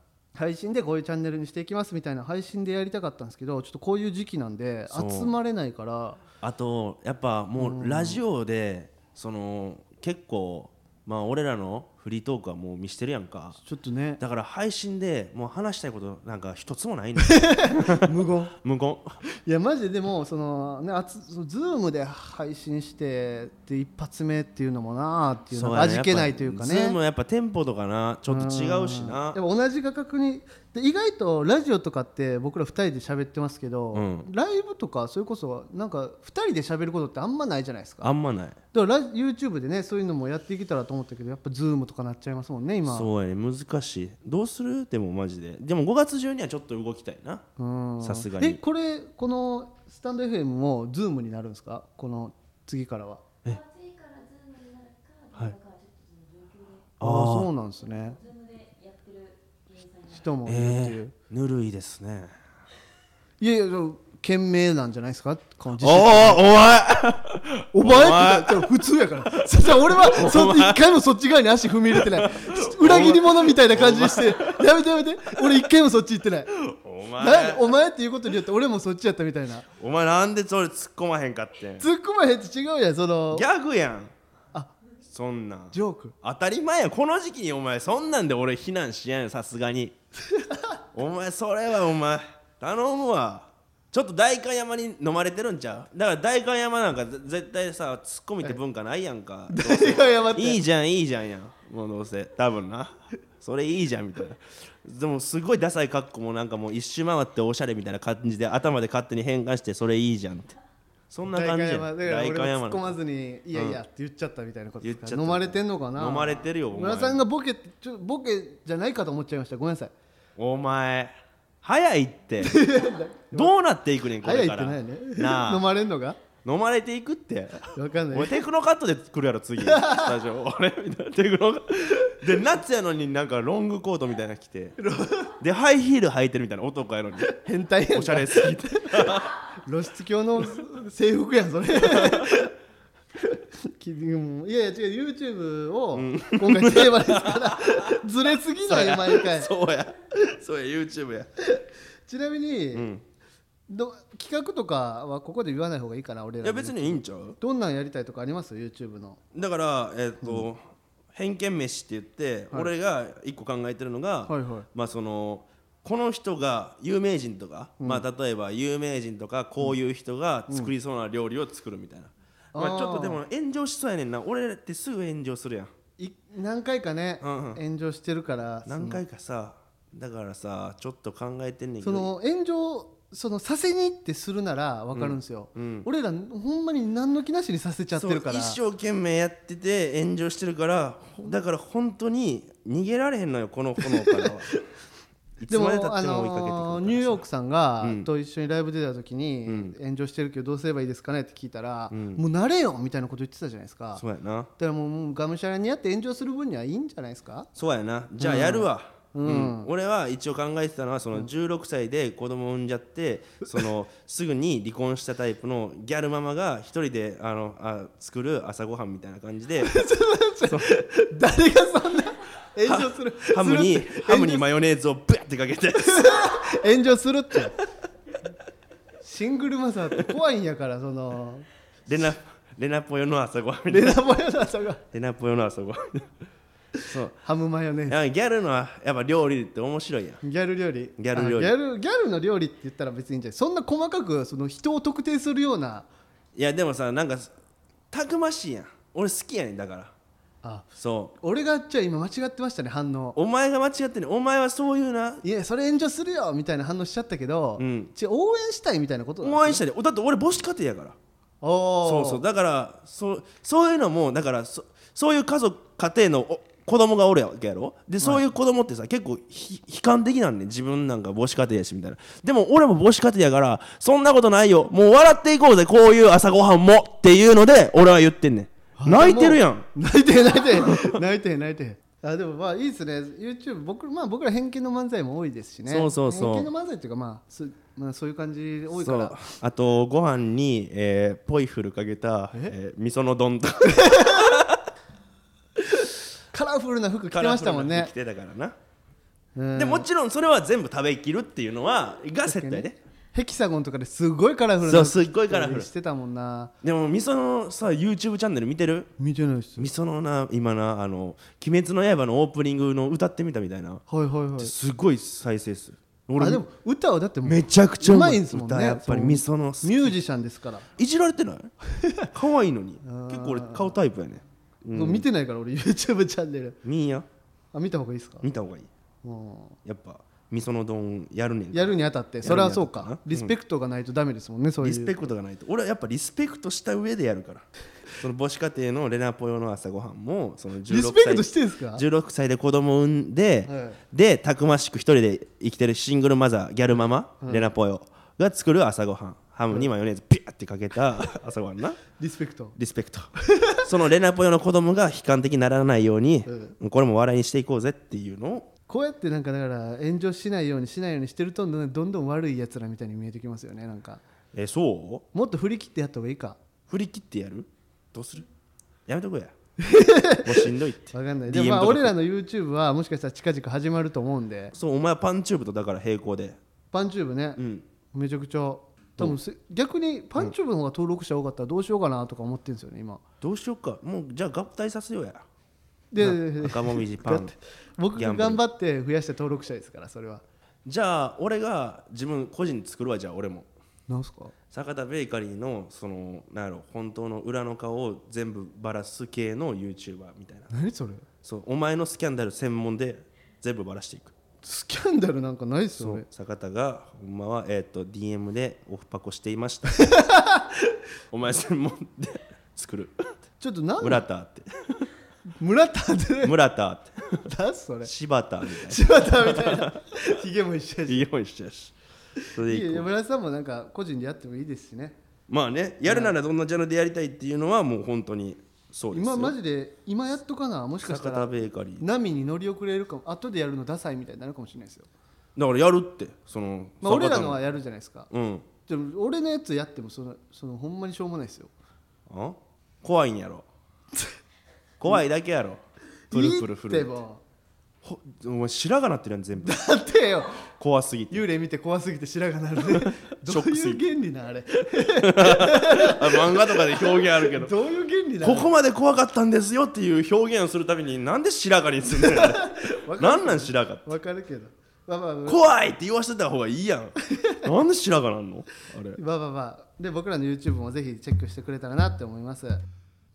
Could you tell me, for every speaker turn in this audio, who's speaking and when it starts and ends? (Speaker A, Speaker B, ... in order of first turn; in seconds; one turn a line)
Speaker A: 0.3-6.2
Speaker B: 4.9-5.3
Speaker B: 6.4-13.6
Speaker A: 7.6-8.2
Speaker A: 13.6-14.2
Speaker B: 14.2-19.2
Speaker A: 17.2-18.6
Speaker A: 19.3-27.0
Speaker B: 25.5-29.4
Speaker A: 28.3-38.1
Speaker B: 33.9-34.3
Speaker B: 38.0-38.6
Speaker A: 38.7-43.1
Speaker B: 42.9-47.5
Speaker A: 47.6-53.3
Speaker B: 48.0-48.6
Speaker C: 53.5-56.9
Speaker B: 57.0-57.5
Speaker A: 57.0-58.2
Speaker C: 57.8-60.4
Speaker A: 60.1-61.1
Speaker B: 60.5-62.3
Speaker A: 63.4-66.5
Speaker B: 65.8-68.7
Speaker A: 67.7-76.5
Speaker B: 69.3-70.9
Speaker B: 71.9-74.7
Speaker B: 76.6-77.7
Speaker A: 77.2-79.7
Speaker B: 79.8-81.9
Speaker A: 81.8-83.5
Speaker B: 83.3-84.1
Speaker B: 85.1-90.0
Speaker A: 85.7-86.2
Speaker A: 90.2-90.8
Speaker B: 90.9-110.6
Speaker A: 99.5-100.6
Speaker B: 111.1-112.9
Speaker A: 111.3-119.9
Speaker B: 113.5-113.8
Speaker B: 114.8-117.2
Speaker B: 120.4-122.6
Speaker A: 122.4-123.5
Speaker B: 123.3-125.6
Speaker A: 124.2-126.2
Speaker B: 126.4-134.8
Speaker A: 127.8-128.4
Speaker A: 129.6-130.2
Speaker A: 134.8-135.3
Speaker B: 135.4-137.3
Speaker A: 137.3-142.5
Speaker B: 137.9-139.4
Speaker B: 141.8-142.3
Speaker A: 143.2-149.5
Speaker B: 145.9-148.0
Speaker B: 148.7-151.3
Speaker A: 151.4-152.9
Speaker B: 152.7-153.0
Speaker A: 153.7-159.2
Speaker B: 156.4-157.4
Speaker B: 159.3-160.6
Speaker B: 161.1-175.7
Speaker A: 164.3-164.7
Speaker A: 172.5-173.2
Speaker A: 176.0-179.0
Speaker B: 177.2-177.6
Speaker B: 178.7-182.1
Speaker A: 181.8-188.6
Speaker B: 184.9-185.9
Speaker B: 187.9-194.5
Speaker A: 193.8-194.3
Speaker B: 195.4-197.2
Speaker A: 195.5-204.0
Speaker B: 197.8-198.1
Speaker B: 199.5-199.8
Speaker B: 201.9-202.2
Speaker B: 204.0-204.5
Speaker A: 204.6-207.5
Speaker B: 207.6-219.8
Speaker A: 208.2-209.7
Speaker A: 219.6-224.5
Speaker B: 220.4-220.7
Speaker B: 222.7-226.3
Speaker A: 225.8-227.6
Speaker A: 229.0-231.5
Speaker B: 231.9-234.0
Speaker A: 233.7-234.8
Speaker B: 234.9-236.1
Speaker B: 236.8-237.2
Speaker A: 237.2-238.0
Speaker B: 237.9-240.2
Speaker A: 240.2-245.9
Speaker B: 241.0-241.5
Speaker B: 246.3-247.3
Speaker B: 247.9-249.9
Speaker A: 250.4-253.2
Speaker B: 250.8-251.1
Speaker B: 253.2-255.2
Speaker A: 255.2-259.6
Speaker B: 257.6-257.9
Speaker B: 259.2-261.0
Speaker A: 261.4-262.2
Speaker B: 261.8-279.7
Speaker A: 278.8-289.2
Speaker B: 280.6-281.0
Speaker B: 285.7-286.5
Speaker B: 288.8-294.6
Speaker A: 293.6-294.4
Speaker A: 295.7-297.9
Speaker B: 297.1-298.6
Speaker A: 299.4-299.9
Speaker B: 299.6-302.8
Speaker A: 302.3-306.5
Speaker B: 304.6-305.7
Speaker B: 306.6-308.9
Speaker A: 309.0-309.7
Speaker B: 309.6-313.8
Speaker A: 313.9-314.5
Speaker B: 314.4-316.4
Speaker A: 316.2-320.7
Speaker B: 317.2-320.0
Speaker B: 320.8-321.5
Speaker A: 321.7-322.1
Speaker B: 322.1-325.1
Speaker A: 322.8-323.8
Speaker A: 324.7-326.6
Speaker B: 326.6-327.1
Speaker A: 327.5-328.3
Speaker B: 328.2-328.7
Speaker A: 329.0-329.6
Speaker B: 329.6-333.4
Speaker A: 331.5-335.1
Speaker B: 334.6-351.8
Speaker A: 340.7-341.8
Speaker A: 343.5-343.8
Speaker A: 347.2-347.5
Speaker A: 352.0-352.6
Speaker B: 352.6-358.5
Speaker A: 353.2-353.7
Speaker A: 356.3-356.6
Speaker A: 358.7-364.0
Speaker B: 364.3-365.1
Speaker A: 365.1-366.4
Speaker B: 366.7-368.3
Speaker B: 368.9-369.3
Speaker A: 369.6-374.5
Speaker B: 370.2-371.9
Speaker B: 374.5-376.4
Speaker A: 376.7-377.4
Speaker B: 377.4-377.6
Speaker A: 377.9-383.0
Speaker B: 383.2-385.2
Speaker A: 385.9-390.2
Speaker B: 386.0-387.3
Speaker B: 388.0-388.4
Speaker B: 390.6-393.5
Speaker A: 393.9-394.3
Speaker B: 394.5-400.5
Speaker A: 400.5-401.1
Speaker B: 401.2-404.1
Speaker A: 404.4-406.1
Speaker B: 405.8-409.9
Speaker A: 409.8-410.8
Speaker B: 411.1-413.1
Speaker A: 413.4-414.1
Speaker B: 413.8-414.9
Speaker A: 415.4-416.3
Speaker B: 416.2-417.3
Speaker A: 417.2-417.9
Speaker B: 417.8-419.8
Speaker A: 418.5-421.1
Speaker B: 420.9-421.7
Speaker B: 422.3-422.9
Speaker A: 422.4-425.0
Speaker B: 425.3-429.4
Speaker A: 425.9-426.2
Speaker A: 428.9-434.9
Speaker B: 430.8-431.9
Speaker B: 435.4-437.4
Speaker A: 436.8-438.1
Speaker B: 438.1-438.5
Speaker A: 438.7-441.5
Speaker B: 442.1-443.5
Speaker B: 444.8-447.0
Speaker A: 446.1-447.2
Speaker B: 447.8-449.6
Speaker A: 449.4-450.4
Speaker B: 450.6-451.2
Speaker A: 451.1-458.5
Speaker B: 452.6-453.8
Speaker B: 454.8-457.5
Speaker B: 458.2-463.9
Speaker A: 461.9-465.4
Speaker B: 465.3-469.0
Speaker A: 467.1-467.4
Speaker A: 469.0-472.6